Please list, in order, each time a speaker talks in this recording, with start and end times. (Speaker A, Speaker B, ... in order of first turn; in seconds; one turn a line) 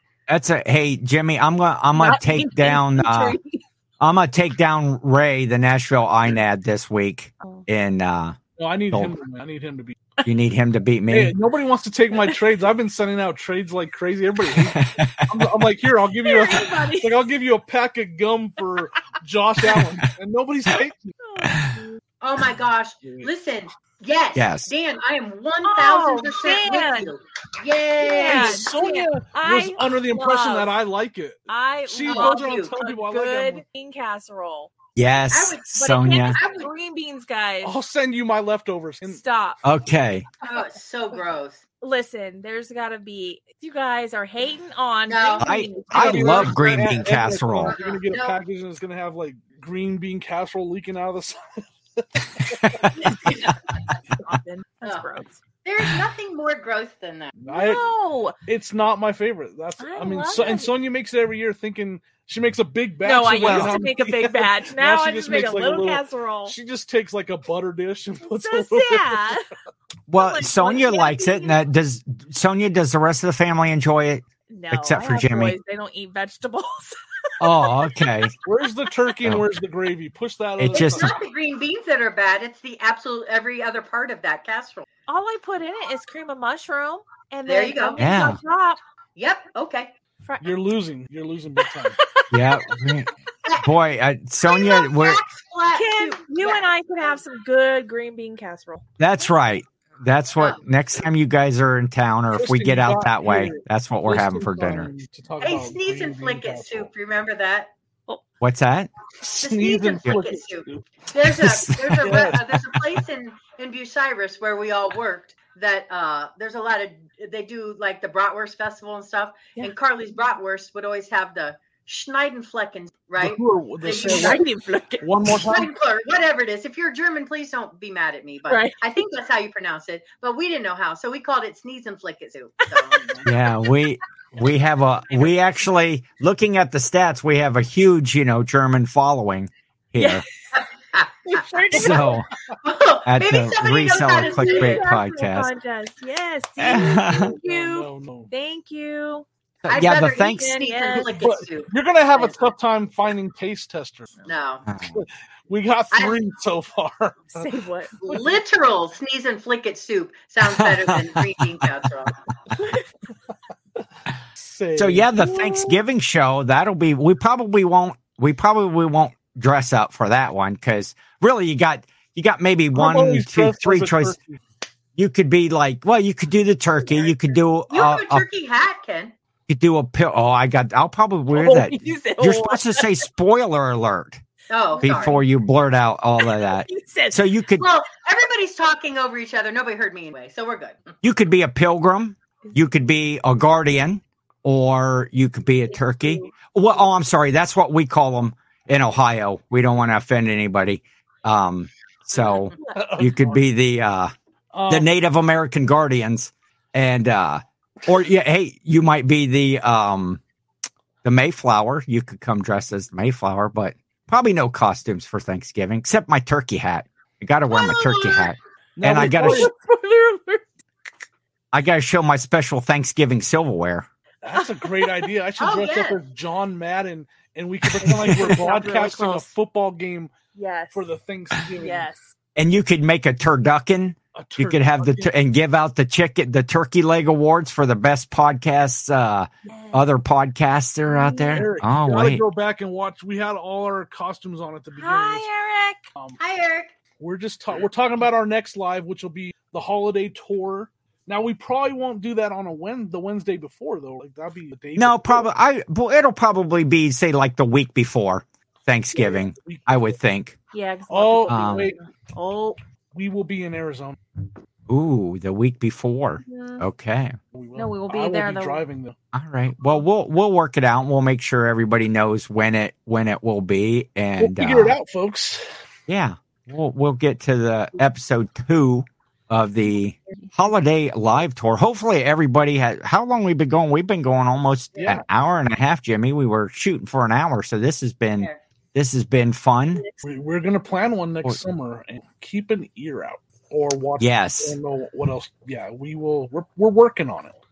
Speaker A: 0.3-3.4
Speaker B: 2.0-3.6
Speaker A: 4.0-8.4
Speaker C: 8.6-10.1
Speaker A: 10.2-11.3
Speaker C: 11.1-21.2
Speaker A: 14.6-15.3
Speaker B: 16.2-17.2
Speaker B: 21.2-22.0
Speaker A: 21.5-21.8
Speaker D: 22.2-28.7
Speaker C: 23.0-23.3
Speaker A: 24.4-24.7
Speaker B: 25.6-27.1
Speaker B: 28.0-30.7
Speaker C: 28.2-33.6
Speaker B: 31.5-34.7
Speaker D: 32.0-32.7
Speaker A: 35.0-36.4
Speaker D: 35.3-36.7
Speaker B: 35.8-37.8
Speaker C: 37.6-39.2
Speaker B: 39.1-39.6
Speaker A: 39.6-40.3
Speaker D: 40.4-41.6
Speaker B: 41.8-46.5
Speaker D: 45.1-45.5
Speaker A: 45.4-47.8
Speaker C: 45.9-52.9
Speaker D: 46.2-46.5
Speaker D: 47.6-48.4
Speaker A: 52.4-52.9
Speaker B: 53.0-53.4
Speaker D: 53.2-53.5
Speaker B: 54.1-55.4
Speaker D: 54.8-55.1
Speaker D: 55.6-57.4
Speaker C: 57.4-57.9
Speaker B: 57.5-58.4
Speaker C: 58.5-69.4
Speaker B: 59.8-60.7
Speaker B: 63.0-66.5
Speaker A: 63.4-63.8
Speaker B: 68.3-69.5
Speaker A: 70.1-75.6
Speaker B: 70.2-71.6
Speaker B: 74.5-77.9
Speaker A: 77.4-78.3
Speaker C: 78.4-81.2
Speaker A: 80.6-81.1
Speaker D: 80.7-84.8
Speaker B: 85.1-88.8
Speaker D: 87.5-88.3
Speaker A: 88.0-88.4
Speaker D: 89.2-89.9
Speaker B: 90.2-90.6
Speaker C: 90.4-92.0
Speaker B: 91.7-92.8
Speaker A: 92.3-93.1
Speaker D: 93.4-93.7
Speaker A: 93.6-95.2
Speaker D: 94.4-97.2
Speaker B: 95.7-98.8
Speaker A: 99.0-104.9
Speaker C: 102.3-106.9
Speaker D: 105.4-107.7
Speaker A: 108.4-108.9
Speaker C: 109.2-110.8
Speaker D: 109.4-124.4
Speaker A: 111.2-112.4
Speaker C: 112.0-112.4
Speaker C: 123.2-124.4
Speaker B: 123.9-125.4
Speaker C: 125.0-125.7
Speaker D: 125.2-133.2
Speaker B: 128.5-128.8
Speaker B: 132.7-133.8
Speaker A: 133.2-140.2
Speaker B: 140.0-140.6
Speaker D: 140.6-142.1
Speaker B: 141.3-142.3
Speaker A: 141.7-142.3
Speaker D: 142.6-145.0
Speaker A: 143.1-145.5
Speaker B: 144.2-149.3
Speaker A: 146.6-147.3
Speaker C: 146.7-148.3
Speaker A: 149.6-150.6
Speaker D: 149.7-152.4
Speaker B: 150.5-151.2
Speaker C: 151.2-154.1
Speaker D: 154.2-154.7
Speaker A: 154.7-155.0
Speaker C: 154.9-157.5
Speaker D: 155.9-156.2
Speaker B: 157.3-158.0
Speaker D: 158.1-162.2
Speaker A: 160.4-161.8
Speaker B: 162.6-162.9
Speaker C: 163.8-165.7
Speaker A: 164.8-174.2
Speaker C: 172.7-174.4
Speaker A: 175.0-178.3
Speaker D: 177.7-179.1
Speaker A: 179.5-184.2
Speaker B: 181.3-182.9
Speaker D: 184.5-185.2
Speaker B: 184.7-185.2
Speaker A: 184.8-187.7
Speaker B: 186.2-187.2
Speaker D: 187.6-190.8
Speaker A: 191.0-204.1
Speaker B: 195.7-196.3
Speaker C: 202.7-203.4
Speaker C: 204.5-204.9
Speaker A: 204.7-210.2
Speaker A: 211.0-219.5
Speaker B: 217.6-218.2
Speaker C: 218.8-219.5
Speaker B: 218.9-220.5
Speaker A: 221.5-223.9
Speaker C: 224.2-230.1
Speaker B: 224.4-225.1
Speaker D: 225.4-226.0
Speaker B: 227.8-229.3
Speaker A: 227.9-228.3
Speaker B: 230.3-230.8
Speaker C: 230.7-231.9
Speaker B: 231.6-232.2
Speaker A: 232.4-242.2
Speaker C: 234.2-235.1
Speaker B: 239.4-239.9
Speaker B: 240.9-241.4
Speaker C: 241.3-245.3
Speaker B: 244.8-245.8
Speaker D: 246.2-246.7
Speaker C: 247.0-255.3
Speaker A: 254.8-260.4
Speaker C: 258.9-259.9
Speaker B: 260.5-262.6
Speaker C: 260.9-261.8
Speaker A: 261.3-261.7
Speaker C: 262.9-264.0
Speaker A: 264.7-267.2
Speaker B: 266.2-266.6
Speaker C: 267.3-268.9
Speaker B: 267.6-268.6
Speaker A: 269.1-274.8
Speaker C: 274.2-275.4
Speaker A: 275.9-289.8
Speaker C: 284.8-285.1
Speaker C: 290.1-297.3
Speaker A: 294.0-294.6